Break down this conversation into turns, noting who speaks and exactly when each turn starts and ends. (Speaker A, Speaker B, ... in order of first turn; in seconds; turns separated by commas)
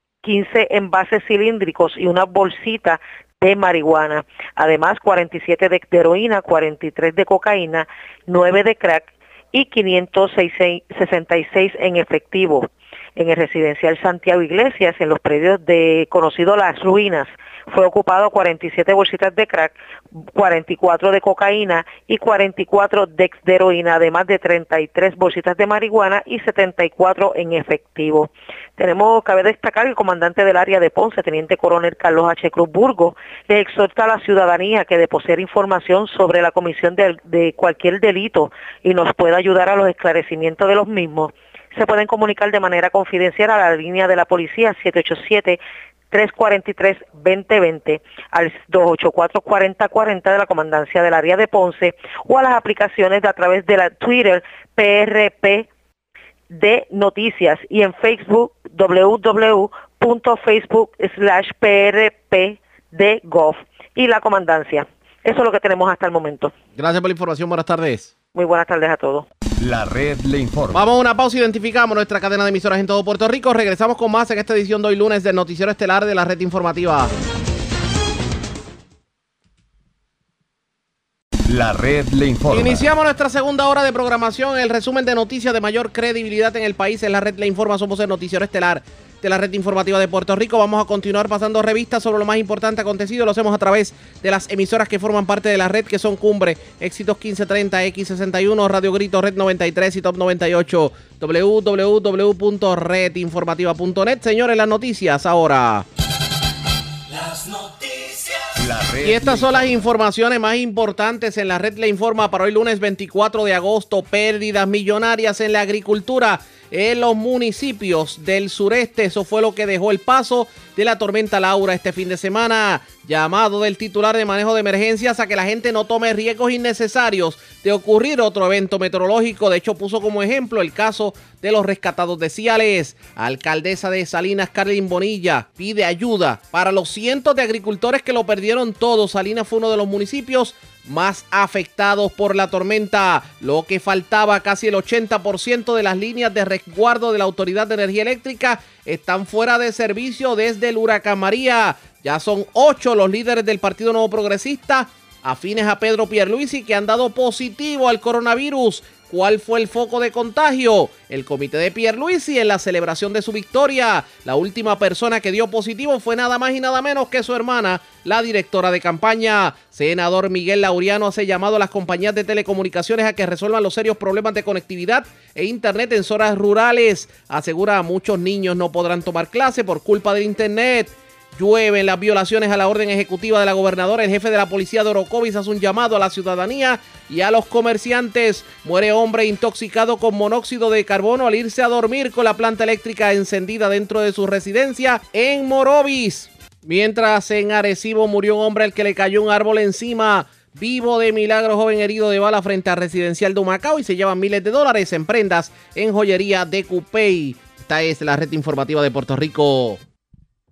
Speaker A: 0.2-55.7, Speaker A: 56.5-66.5, Speaker B: 66.8-68.1, Speaker A: 68.3-69.3, Speaker C: 69.6-70.9, Speaker B: 70.7-77.1, Speaker C: 81.5-82.9, Speaker B: 82.5-105.9, Speaker C: 108.6-109.8, Speaker B: 109.0-209.8